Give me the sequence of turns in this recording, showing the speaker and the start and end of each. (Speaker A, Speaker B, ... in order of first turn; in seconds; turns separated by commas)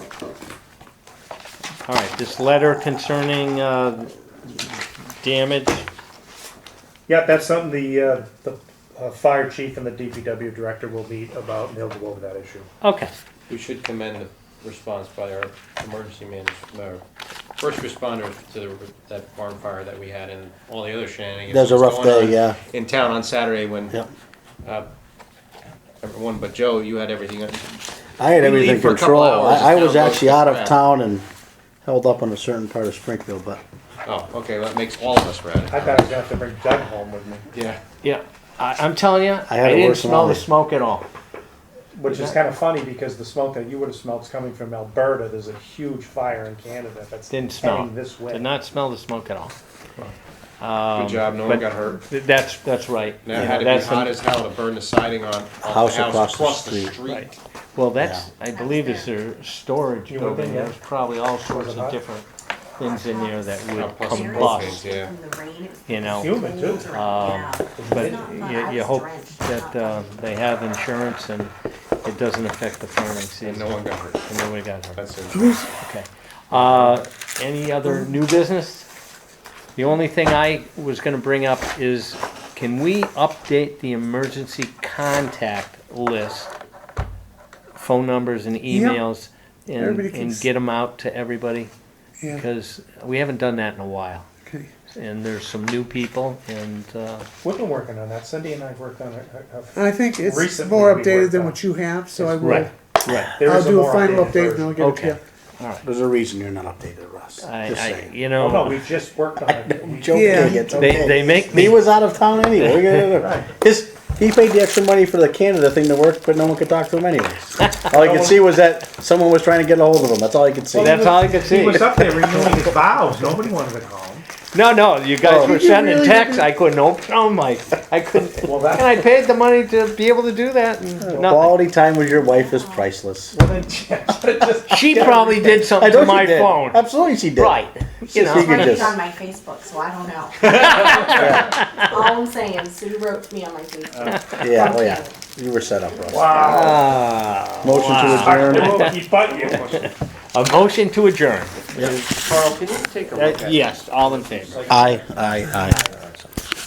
Speaker A: 1.9-4.6, Speaker A: 5.2-5.9, Speaker B: 7.1-12.7, Speaker A: 12.8-13.1, Speaker C: 13.5-17.0, Speaker C: 17.6-24.0, Speaker D: 21.5-22.6, Speaker C: 24.6-24.9, Speaker C: 26.0-27.8, Speaker D: 28.2-31.3, Speaker C: 28.4-30.8, Speaker D: 31.9-33.6, Speaker C: 34.0-36.1, Speaker B: 35.7-37.5, Speaker C: 37.5-37.8, Speaker A: 38.0-41.1, Speaker D: 39.5-40.5, Speaker B: 42.0-48.4, Speaker A: 42.1-42.4, Speaker A: 47.3-49.5, Speaker A: 50.6-54.2, Speaker C: 50.9-52.0, Speaker C: 53.2-57.4, Speaker D: 55.6-57.0, Speaker A: 57.1-62.3, Speaker D: 58.0-58.3, Speaker E: 58.5-59.2, Speaker B: 60.1-60.8, Speaker B: 61.5-62.0, Speaker A: 62.8-64.8, Speaker E: 62.8-70.3, Speaker C: 63.7-65.2, Speaker A: 65.9-66.4, Speaker B: 66.1-67.0, Speaker A: 66.9-71.5, Speaker B: 67.8-68.6, Speaker A: 72.0-75.0, Speaker C: 73.4-74.2, Speaker C: 75.0-75.5, Speaker F: 75.3-75.7, Speaker A: 75.8-78.9, Speaker C: 76.5-77.0, Speaker A: 79.8-86.5, Speaker A: 87.8-91.7, Speaker F: 88.7-89.0, Speaker F: 89.8-90.5, Speaker A: 92.3-94.3, Speaker F: 94.4-94.7, Speaker A: 94.9-97.3, Speaker B: 97.4-101.6, Speaker F: 99.7-105.2, Speaker B: 102.2-102.6, Speaker A: 102.4-103.4, Speaker B: 103.4-104.8, Speaker A: 104.8-105.8, Speaker D: 105.8-108.2, Speaker A: 107.4-108.8, Speaker B: 108.4-111.7, Speaker D: 109.6-121.1, Speaker F: 110.1-110.8, Speaker A: 110.8-111.8, Speaker A: 112.6-113.1, Speaker B: 113.2-113.5, Speaker B: 117.9-118.4, Speaker B: 120.8-124.3, Speaker A: 120.8-122.5, Speaker A: 124.5-131.6, Speaker B: 125.2-126.0, Speaker D: 125.3-125.5, Speaker B: 128.4-129.0, Speaker D: 131.0-133.3, Speaker E: 132.2-132.9, Speaker B: 133.3-135.8, Speaker A: 134.7-139.0, Speaker D: 135.8-139.0, Speaker E: 138.3-146.8, Speaker C: 140.4-141.3, Speaker A: 140.5-141.9, Speaker D: 141.1-141.6, Speaker C: 143.9-144.2, Speaker A: 144.1-144.4, Speaker D: 144.4-146.7, Speaker B: 146.1-146.8, Speaker A: 146.4-149.0, Speaker D: 147.6-148.9, Speaker B: 148.0-149.9, Speaker C: 149.2-149.9, Speaker A: 150.3-151.6, Speaker C: 151.7-154.9, Speaker A: 153.2-154.7, Speaker B: 154.5-155.9, Speaker D: 154.7-155.8, Speaker C: 155.6-156.3